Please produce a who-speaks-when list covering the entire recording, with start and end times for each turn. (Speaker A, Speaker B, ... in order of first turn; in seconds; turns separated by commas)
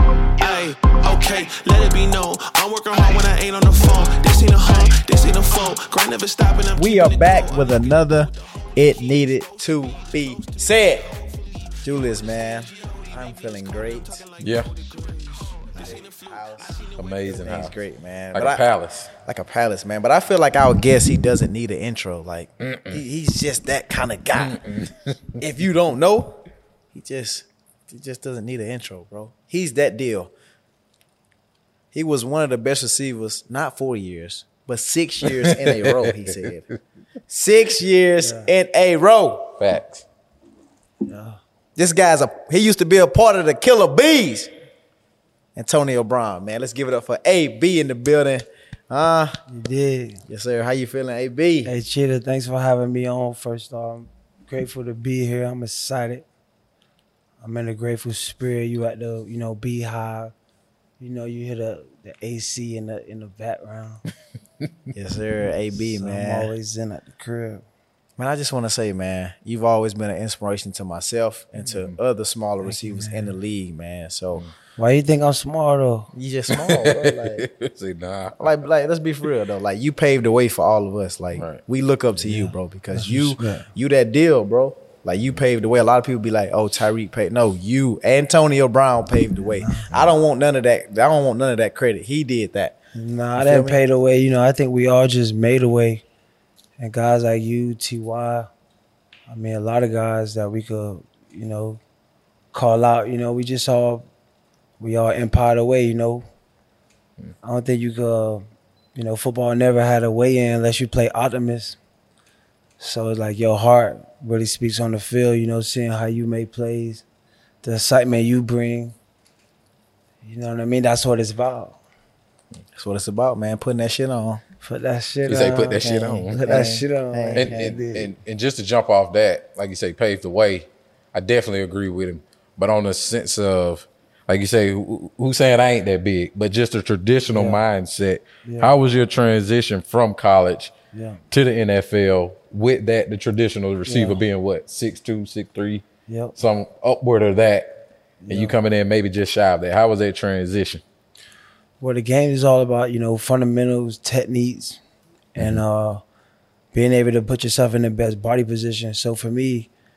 Speaker A: 0.4-17.2, Speaker B: 6.8-11.1, Speaker B: 11.8-14.2, Speaker C: 14.4-14.7, Speaker B: 15.7-24.8, Speaker C: 17.0-17.8, Speaker C: 18.3-19.1, Speaker C: 22.6-23.0, Speaker C: 24.4-25.2, Speaker B: 25.4-30.3, Speaker B: 31.9-36.7, Speaker C: 35.2-36.5, Speaker B: 37.3-39.6, Speaker D: 38.2-38.5, Speaker C: 39.6-40.0, Speaker D: 41.0-41.4, Speaker B: 41.8-44.5, Speaker B: 45.6-49.4, Speaker D: 49.5-50.2, Speaker B: 50.3-51.7, Speaker D: 51.6-56.3, Speaker D: 57.4-60.3, Speaker D: 61.0-64.0, Speaker B: 64.9-66.5, Speaker D: 65.8-67.6, Speaker B: 68.2-74.5, Speaker C: 71.6-72.0, Speaker D: 72.6-73.3, Speaker D: 74.8-76.1, Speaker B: 76.1-77.5, Speaker C: 76.5-78.6, Speaker B: 78.4-92.8, Speaker C: 81.3-81.6, Speaker D: 82.2-83.7, Speaker D: 89.4-90.1, Speaker D: 93.0-96.0, Speaker B: 93.4-93.8, Speaker D: 96.8-98.5, Speaker D: 99.3-101.8, Speaker D: 102.5-104.0, Speaker D: 104.8-106.2, Speaker D: 107.4-108.4, Speaker D: 109.0-111.8, Speaker D: 112.8-117.0, Speaker D: 117.6-119.0, Speaker D: 120.2-121.8, Speaker B: 122.8-124.4, Speaker D: 124.6-128.1, Speaker C: 125.3-126.5, Speaker B: 125.8-127.8, Speaker C: 127.3-140.7, Speaker D: 137.3-137.6, Speaker D: 138.4-138.7, Speaker D: 140.9-141.2, Speaker C: 141.3-145.8, Speaker D: 143.9-144.2, Speaker D: 146.1-146.3, Speaker C: 146.4-147.8, Speaker D: 148.2-148.6, Speaker C: 148.3-150.8, Speaker D: 151.8-154.8, Speaker D: 155.4-156.0, Speaker D: 156.7-159.7